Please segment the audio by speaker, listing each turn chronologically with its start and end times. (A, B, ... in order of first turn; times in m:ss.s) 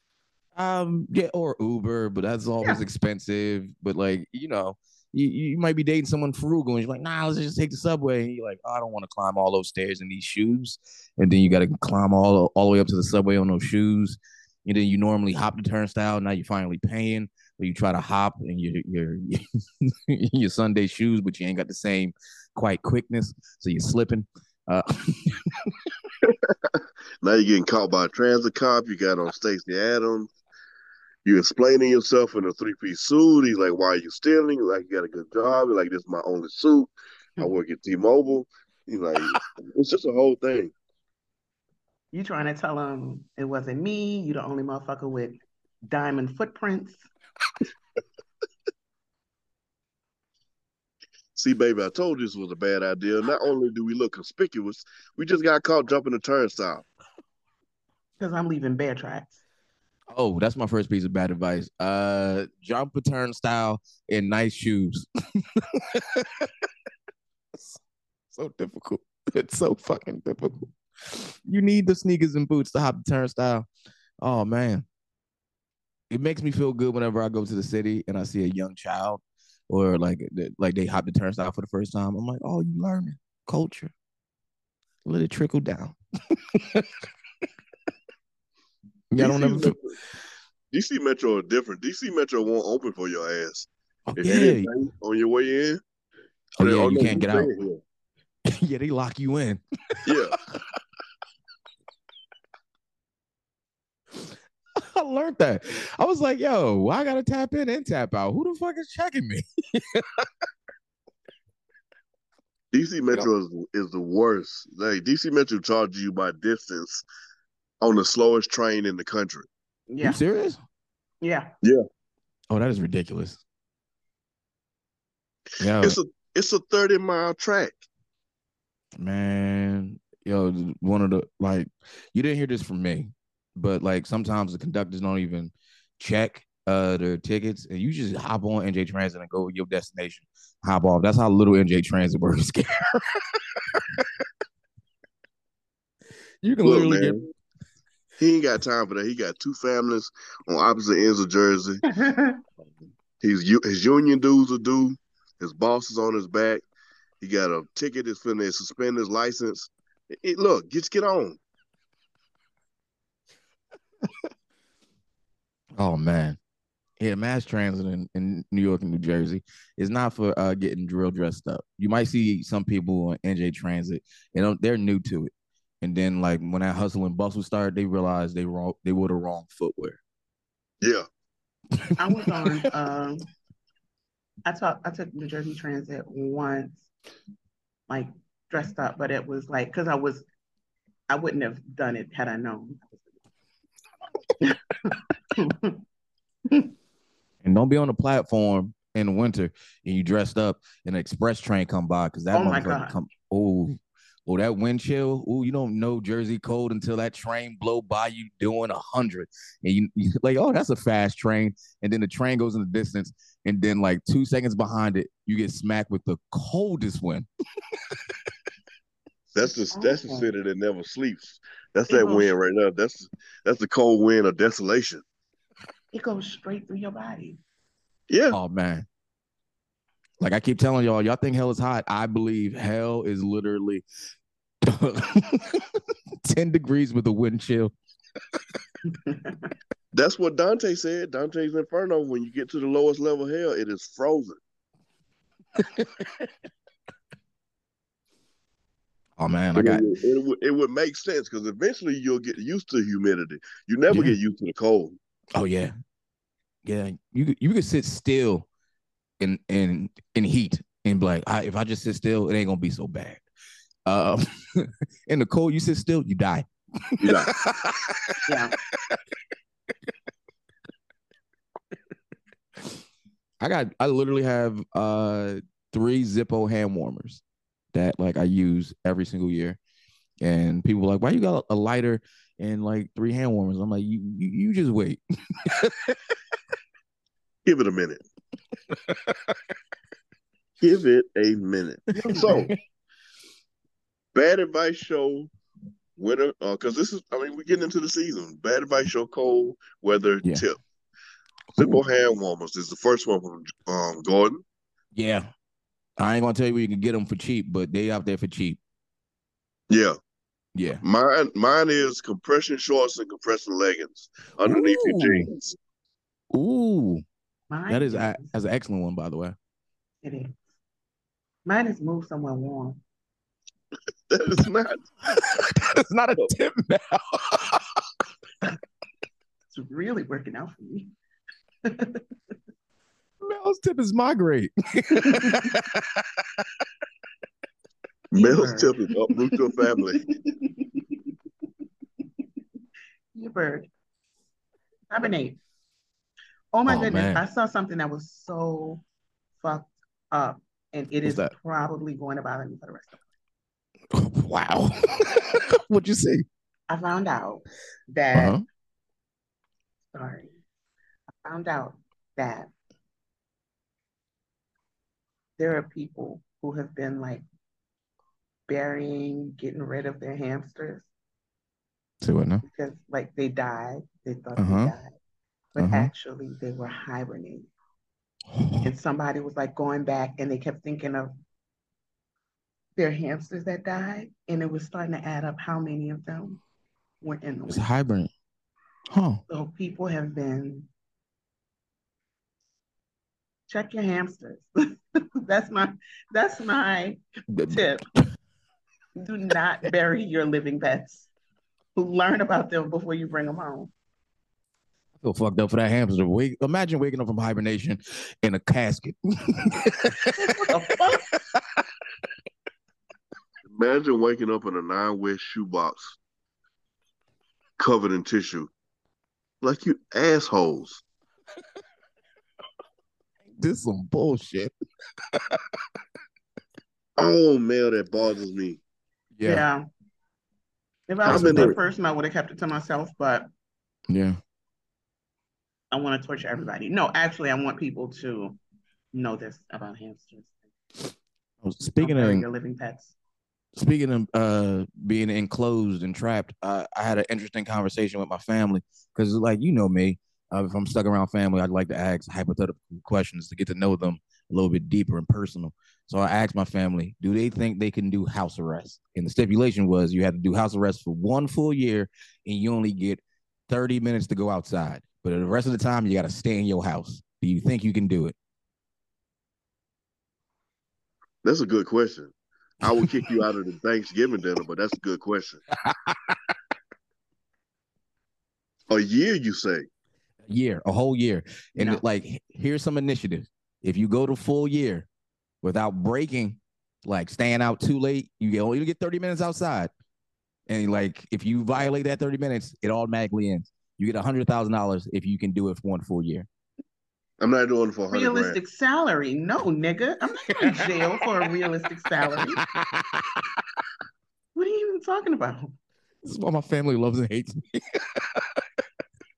0:00.6-0:25.7 A
0:26.3-0:26.5 B
0:27.2-0:30.3 B
0:31.2-0:40.7 B
0:42.1-0:47.1 C
0:51.4-0:56.8 B
0:58.2-0:59.4 C
1:00.1-1:06.5 A
1:08.3-1:13.7 A
1:14.2-1:14.8 A
1:16.1-1:23.9 A
1:25.0-1:26.9 A
1:29.1-1:29.8 A
1:29.2-1:30.0 B
1:30.7-1:35.8 B
1:34.1-1:34.7 A
1:36.6-1:37.5 A
1:36.6-1:37.8 B
1:38.5-1:40.2 A
1:40.1-1:40.4 B
1:44.2-1:50.3 A
1:52.7-1:57.0 B
1:57.8-1:59.5 B
1:59.9-2:00.2 C
2:00.0-2:00.6 A
2:01.2-2:01.5 C
2:02.5-2:03.4 A
2:05.6-2:06.0 A
2:05.8-2:07.8 B
2:09.0-2:24.1 A
2:26.4-2:27.2 A
2:26.6-2:27.3 B
2:28.2-2:31.8 B
2:31.9-2:32.4 C
2:33.2-2:36.6 B
2:37.2-2:41.4 B
2:45.8-2:46.4 A
2:47.0-2:55.3 A
2:55.8-3:00.0 A
3:01.9-3:02.7 A
3:02.0-3:03.3 C
3:04.5-3:06.9 C
3:07.9-3:10.3 C
3:11.1-3:13.1 C
3:14.4-3:15.8 C
3:17.4-3:37.3 A
3:22.3-3:23.0 C
3:39.3-3:45.0 B
3:39.7-3:40.3 C
3:41.9-3:42.3 C
3:45.9-3:47.4 C
3:48.1-3:48.4 B
3:48.3-3:48.8 A
3:50.2-3:53.8 A
3:54.6-3:57.7 A
3:58.9-3:59.5 C
3:59.9-4:04.4 B
4:05.6-4:06.3 A
4:09.2-4:09.8 A
4:09.6-4:15.0 B
4:13.9-4:14.2 A
4:15.3-4:15.7 A
4:16.6-4:18.5 A
4:19.2-4:23.2 A
4:23.9-4:28.2 A
4:27.0-4:27.3 B
4:28.2-4:28.5 C
4:33.4-4:37.2 A
4:37.7-4:39.6 A
4:40.2-4:46.1 A
4:47.5-4:48.0 B
4:48.7-4:49.4 A
4:50.6-4:52.5 B
4:51.9-4:52.5 C
4:52.1-4:52.6 A
4:54.1-4:55.3 B
4:56.0-5:00.6 B
5:01.6-5:04.4 B
5:01.6-5:01.8 A
5:04.9-5:05.3 A
5:06.0-5:08.6 A
5:09.7-5:10.0 B
5:10.6-5:10.8 A
5:10.8-5:15.6 B
5:14.4-5:15.3 A
5:16.3-5:17.0 A
5:17.5-5:18.3 C
5:17.7-5:19.4 A
5:20.0-5:20.3 C
5:21.5-5:22.8 C
5:24.1-5:24.8 B
5:25.1-5:27.8 A
5:29.5-5:30.9 C
5:31.7-5:32.0 C
5:33.2-5:36.5 A
5:34.9-5:35.5 C
5:38.1-5:40.0 B
5:38.2-5:38.8 C
5:40.1-5:40.8 C
5:43.1-5:43.7 C
5:44.9-5:45.4 C
5:46.5-5:48.8 C
5:46.7-5:47.2 A
5:49.4-5:53.0 C
5:51.0-5:51.3 A
5:53.9-5:56.2 A
5:56.7-5:58.4 C
5:58.1-5:58.4 A
5:59.9-6:00.3 C
6:01.2-6:02.5 C
6:05.4-6:07.2 C
6:08.5-6:10.9 C
6:12.0-6:12.4 A
6:12.4-6:15.0 C
6:14.4-6:14.7 A
6:15.5-6:17.5 C
6:15.6-6:15.9 A
6:18.3-6:18.7 A
6:18.6-6:21.1 C
6:22.8-6:26.4 C
6:27.0-6:27.6 C
6:27.5-6:28.1 A
6:28.9-6:29.2 A
6:29.3-6:30.7 C
6:33.5-6:34.5 C
6:35.2-6:37.9 C
6:37.3-6:37.6 A
6:39.0-6:41.1 C
6:41.8-6:43.7 C
6:45.0-6:50.1 A
6:50.2-6:51.0 C
6:53.5-6:56.0 B
6:57.6-6:58.5 B
6:59.4-7:00.8 B
7:03.3-7:04.5 A
7:05.1-7:05.4 A
7:07.0-7:08.6 B
7:09.1-7:09.5 A
7:09.2-7:09.6 C
7:10.9-7:13.3 C
7:11.0-7:11.6 B
7:11.1-7:11.6 A
7:13.9-7:14.2 A
7:15.7-7:18.4 C
7:18.9-7:20.3 C
7:21.4-7:22.2 A
7:21.8-7:23.0 C
7:23.6-7:48.2 A
7:51.2-7:55.4 B
7:52.7-7:53.2 A
7:55.6-7:56.3 A
7:58.7-7:59.7 B
8:00.2-8:04.9 A
8:01.6-8:01.8 C
8:05.4-8:09.7 A
8:10.5-8:16.3 A
8:17.2-8:18.4 B
8:17.9-8:22.4 C
8:22.4-8:23.4 A
8:24.4-8:25.5 C
8:26.0-8:28.4 A